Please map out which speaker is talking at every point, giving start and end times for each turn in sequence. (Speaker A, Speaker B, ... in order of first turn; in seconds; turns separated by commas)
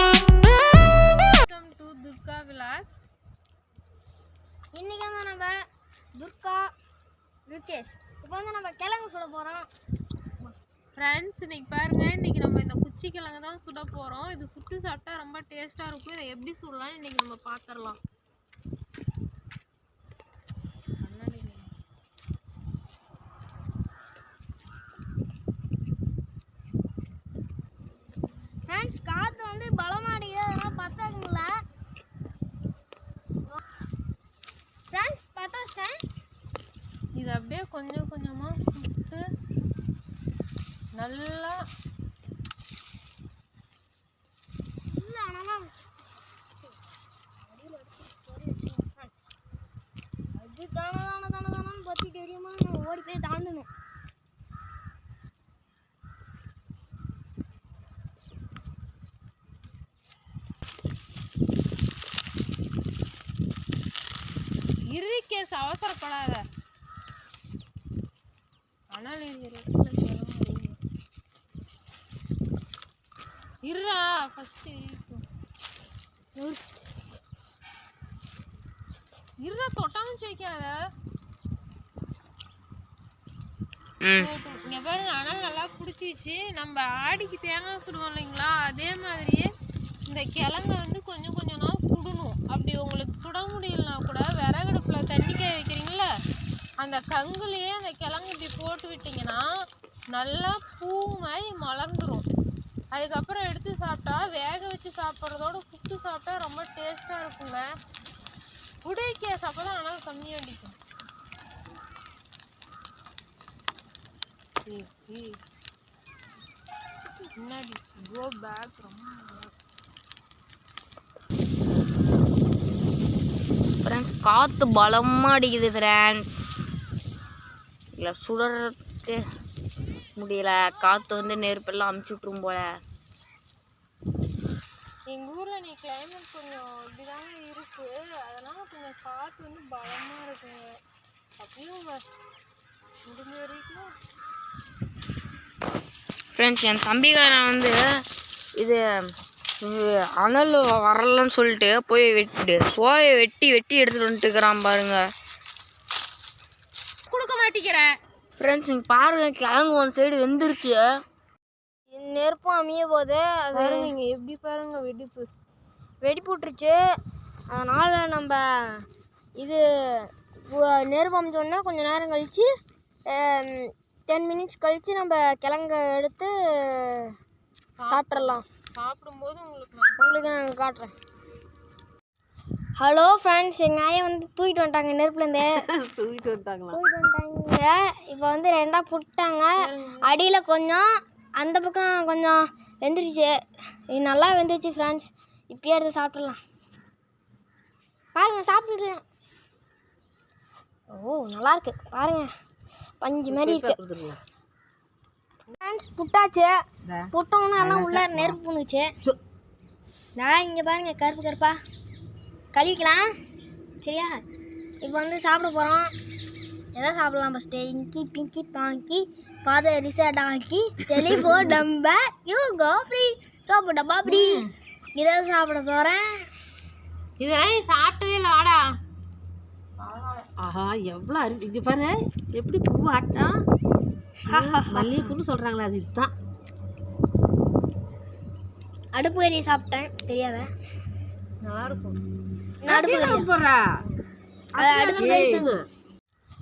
Speaker A: 0.8-3.0, Speaker B: 4.7-5.5, Speaker B: 6.2-6.7, Speaker B: 7.5-9.7, Speaker A: 10.4-18.0, Speaker A: 21.0-21.7, Speaker B: 28.7-31.5, Speaker B: 34.9-36.0, Speaker A: 37.1-39.2, Speaker A: 41.0-41.6, Speaker B: 44.9-45.8, Speaker B: 47.5-49.1, Speaker B: 50.4-53.7, Speaker A: 64.9-66.4, Speaker A: 68.9-70.8, Speaker A: 73.7-75.2, Speaker A: 79.4-80.8, Speaker C: 84.0-84.3, Speaker A: 84.2-89.5, Speaker A: 90.1-96.1, Speaker A: 96.8-99.4, Speaker A: 100.1-102.3, Speaker A: 102.9-107.6, Speaker A: 108.8-110.8, Speaker A: 114.7-115.4, Speaker A: 117.4-119.5, Speaker C: 123.8-126.4, Speaker C: 128.0-129.2, Speaker C: 130.2-132.7, Speaker A: 135.1-140.8, Speaker A: 141.4-142.0, Speaker A: 143.1-143.9, Speaker C: 146.4-147.8, Speaker C: 149.6-155.0, Speaker A: 157.1-157.9, Speaker C: 158.4-160.8, Speaker B: 161.9-163.9, Speaker A: 163.5-165.3, Speaker B: 166.0-166.8, Speaker B: 167.5-168.8, Speaker B: 169.4-172.5, Speaker B: 173.1-177.1, Speaker A: 177.8-180.2, Speaker B: 177.9-178.4, Speaker B: 180.0-180.9, Speaker B: 182.8-185.5, Speaker D: 185.6-186.8, Speaker B: 186.7-190.9, Speaker A: 189.6-190.1, Speaker B: 191.4-193.3, Speaker B: 193.9-196.4, Speaker B: 198.2-199.0, Speaker B: 200.9-202.3, Speaker B: 203.0-203.8, Speaker D: 203.3-204.2, Speaker B: 205.6-206.6, Speaker D: 206.9-208.4, Speaker B: 207.1-208.9, Speaker B: 210.2-211.6, Speaker B: 212.5-213.1, Speaker B: 213.8-214.2, Speaker B: 214.8-215.9, Speaker B: 216.8-226.1, Speaker A: 224.0-224.5, Speaker A: 227.2-228.7, Speaker A: 229.8-230.3, Speaker D: 230.4-233.4, Speaker D: 234.3-236.1, Speaker B: 234.3-235.2, Speaker B: 238.9-240.5, Speaker A: 241.4-242.0, Speaker B: 242.7-243.3, Speaker D: 242.7-243.7, Speaker D: 244.6-245.7, Speaker B: 244.6-245.6